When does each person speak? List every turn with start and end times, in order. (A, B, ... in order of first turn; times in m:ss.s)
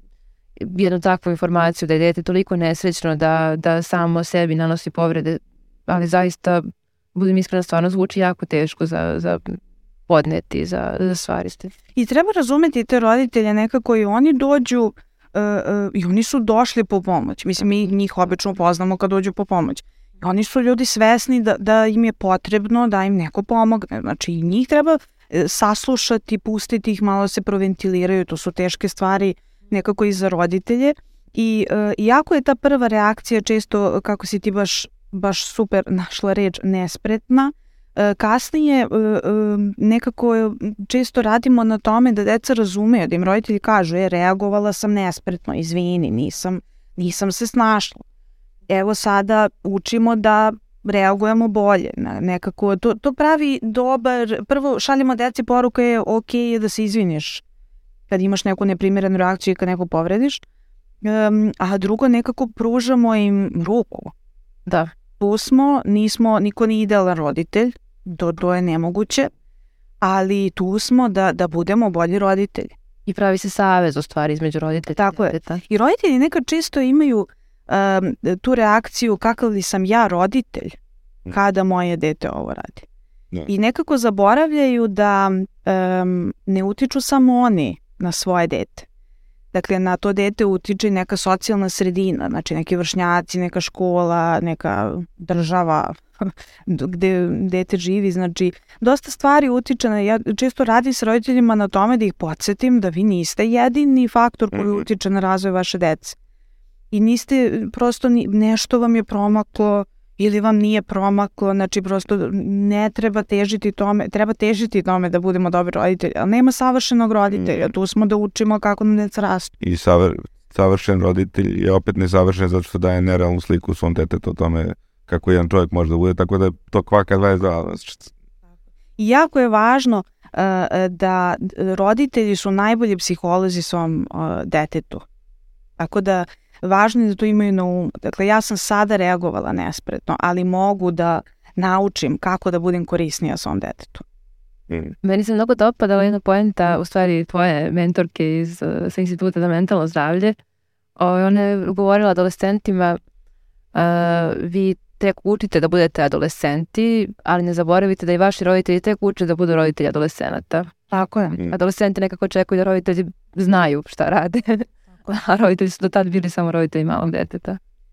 0:00.6-0:06.6 A
0:07.2-0:11.7 A
0:12.0-0:48.0 B
0:48.7-0:57.4 B
0:58.1-1:00.4 B
1:01.0-1:04.1 B
1:04.7-1:04.9 A
1:05.2-1:09.3 B
1:10.0-1:12.7 B
1:13.1-1:15.6 A
1:15.0-1:20.8 B
1:21.3-1:22.9 B
1:23.5-1:28.9 B
1:29.5-1:46.2 B
1:44.5-1:44.8 C
1:46.9-1:59.5 B
1:59.6-2:08.1 C
2:09.0-2:15.0 B
2:15.8-2:24.0 B
2:24.7-2:25.0 C
2:25.0-2:30.4 A
2:31.0-2:33.0 A
2:33.7-2:40.8 A
2:40.9-2:41.4 B
2:41.5-2:47.6 A